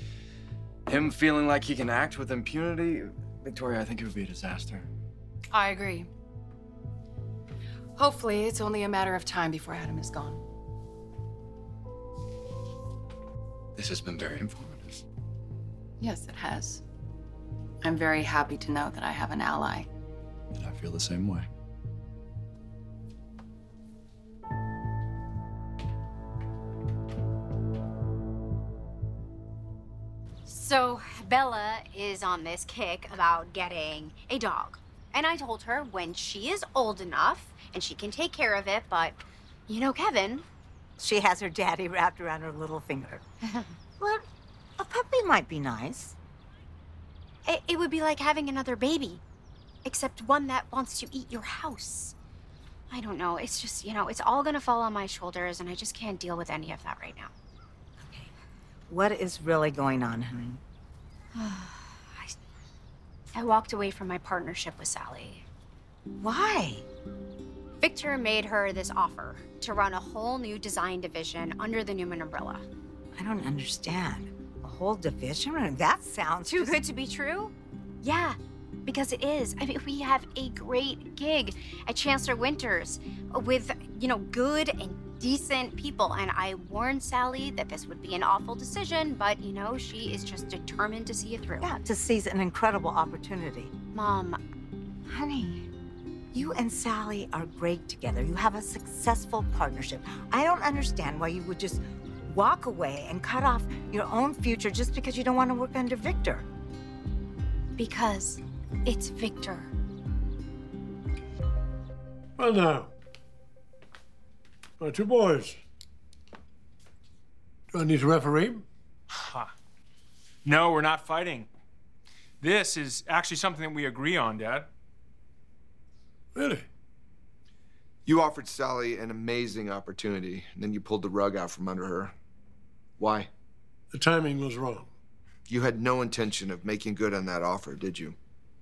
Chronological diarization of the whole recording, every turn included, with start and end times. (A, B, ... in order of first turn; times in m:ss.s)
0:00.9-0:04.9 A
0:05.5-0:06.1 B
0:08.0-0:10.4 B
0:13.8-0:15.0 A
0:16.0-0:16.8 B
0:17.8-0:19.9 B
0:20.5-0:21.5 A
0:30.5-0:40.4 C
0:41.0-0:43.2 D
0:44.0-0:44.3 D
0:44.8-0:46.2 D
0:47.4-0:49.2 C
0:49.8-0:52.2 C
0:52.9-0:57.3 C
0:58.0-0:58.3 D
0:58.9-1:00.6 D
1:01.4-1:02.3 C
1:03.3-1:05.4 C
1:06.2-1:06.8 D
1:07.8-1:12.7 C
1:13.2-1:16.8 D
1:16.5-1:31.8 C
1:31.6-1:33.7 D
1:33.9-1:34.4 C
1:35.1-1:35.7 D
1:36.3-1:46.5 D
1:47.8-1:49.7 C
1:52.4-1:52.9 E
1:54.8-1:55.6 E
1:57.7-1:58.6 E
1:59.1-1:59.5 F
2:00.4-2:01.5 F
2:02.4-2:04.7 F
2:06.3-2:06.7 E
2:08.1-2:12.2 G
2:13.0-2:13.3 G
2:13.9-2:14.9 E
2:15.5-2:18.2 G